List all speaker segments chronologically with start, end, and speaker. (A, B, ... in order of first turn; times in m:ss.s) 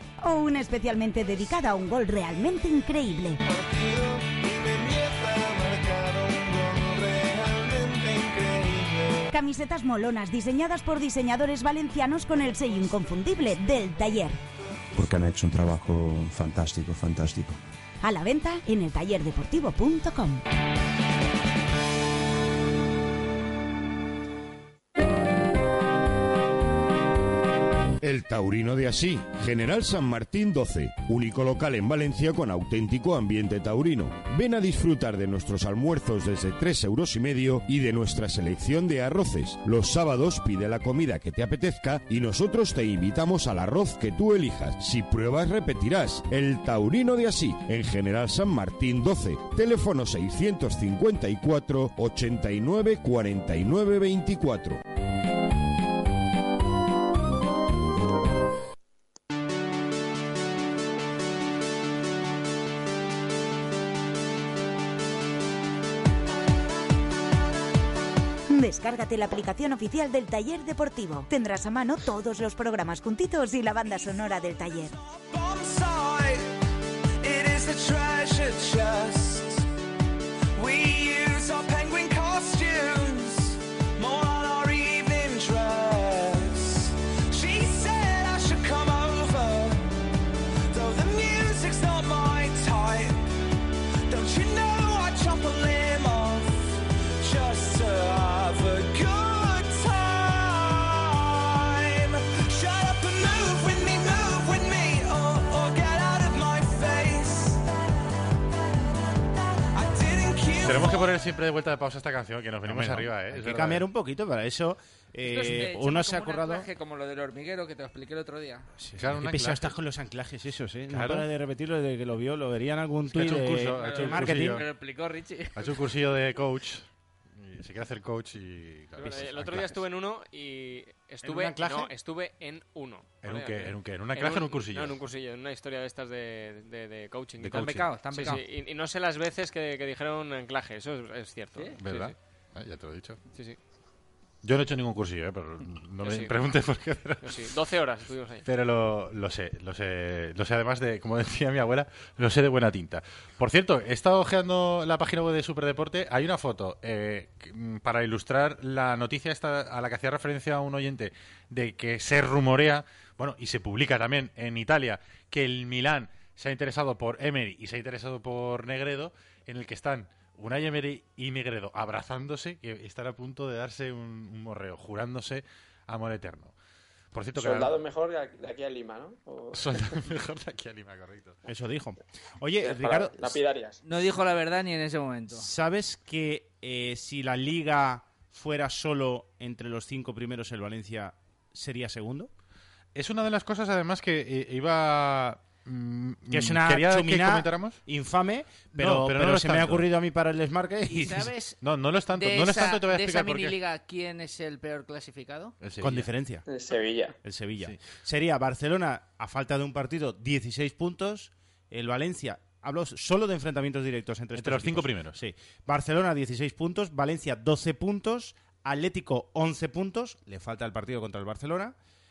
0:00.2-0:03.4 A
0:03.5-0:09.3 B
0:09.3-0:14.4 A
0:15.0-0:17.6 C
0:18.0-0:20.4 A
0:28.0-0:54.8 D
1:08.5-1:14.9 A
1:15.1-1:16.5 B
1:17.2-1:19.7 B
1:20.6-1:29.9 B
1:30.7-1:33.3 B
1:34.1-1:47.6 B
1:49.7-1:51.1 B
1:50.6-1:53.8 E
1:52.6-1:56.7 F
1:55.2-1:58.7 G
1:58.8-2:04.6 F
1:59.0-1:59.7 E
2:00.9-2:01.3 E
2:03.1-2:04.7 E
2:03.8-2:05.8 G
2:05.6-2:09.8 E
2:09.0-2:22.1 H
2:11.2-2:11.9 F
2:13.2-2:15.0 E
2:17.4-2:17.9 E
2:17.4-2:18.4 G
2:21.8-2:23.2 E
2:24.4-2:27.4 E
2:26.0-2:26.4 H
2:27.2-2:28.4 H
2:28.4-2:56.5 E
2:57.1-2:57.8 E
2:57.4-2:59.8 I
2:59.5-3:01.4 E
3:01.5-3:03.4 F
3:02.6-3:03.8 I
3:03.8-3:05.5 G
3:05.3-3:12.3 F
3:13.0-3:17.8 E
3:16.3-3:21.3 F
3:18.8-3:19.9 E
3:20.9-3:21.6 G
3:21.6-3:23.6 E
3:22.1-3:25.6 G
3:25.6-3:26.1 E
3:25.8-3:26.4 F
3:26.5-3:27.2 I
3:27.2-3:41.8 F
3:34.4-3:35.2 E